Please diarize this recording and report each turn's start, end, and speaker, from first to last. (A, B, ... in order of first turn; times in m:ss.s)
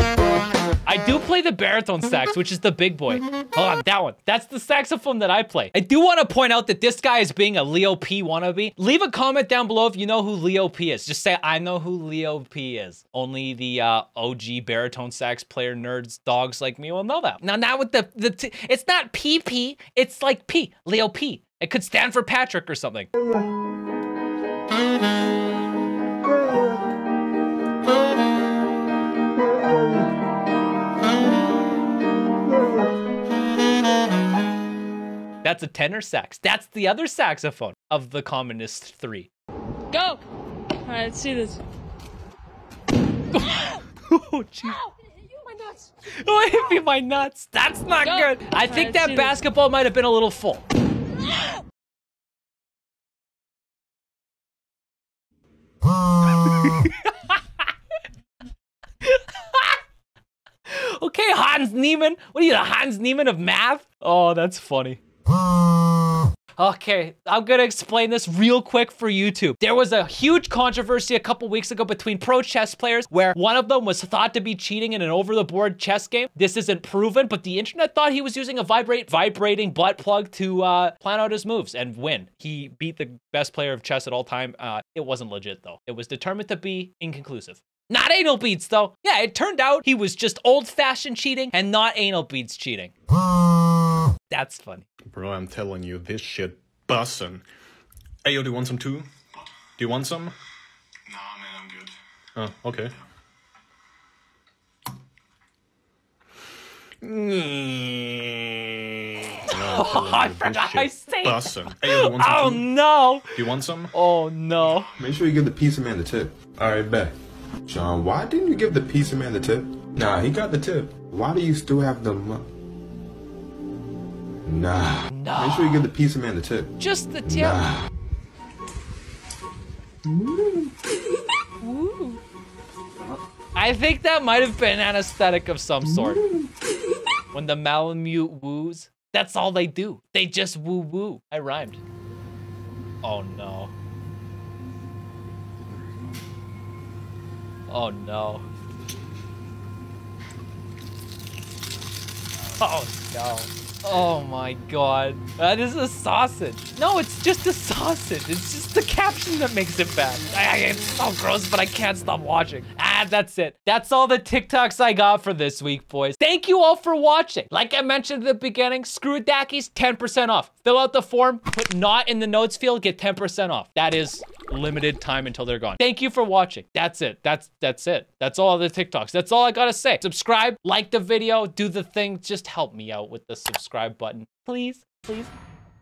0:00.9-0:23.1 A
0:35.4-0:39.3 A
0:39.9-0:40.2 B
0:40.8-0:41.6 B
0:43.3-0:44.8 A
0:45.4-0:45.8 B
0:46.1-0:50.6 A
0:48.0-0:49.4 B
0:56.4-0:57.4 A
0:59.0-0:59.8 A
1:00.7-1:05.0 A
1:06.6-1:32.9 A
1:34.3-1:34.9 A
1:35.1-1:37.4 C
1:38.2-1:39.1 C
1:39.8-1:40.3 C
1:41.6-1:41.8 C
1:42.4-1:42.9 C
1:47.3-1:47.8 A
1:49.2-1:53.4 A
1:49.5-1:52.7 C
1:53.3-1:53.9 C
1:53.9-1:54.9 A
1:55.0-1:57.1 D
1:57.7-2:02.4 D
2:04.5-2:06.8 D
2:05.1-2:05.8 A
2:06.8-2:07.6 A
2:07.3-2:07.8 D
2:11.6-2:12.2 A
2:13.6-2:16.2 A
2:17.3-2:21.8 A
2:23.0-2:23.7 A
2:27.7-2:28.4 A
2:32.6-3:05.3 A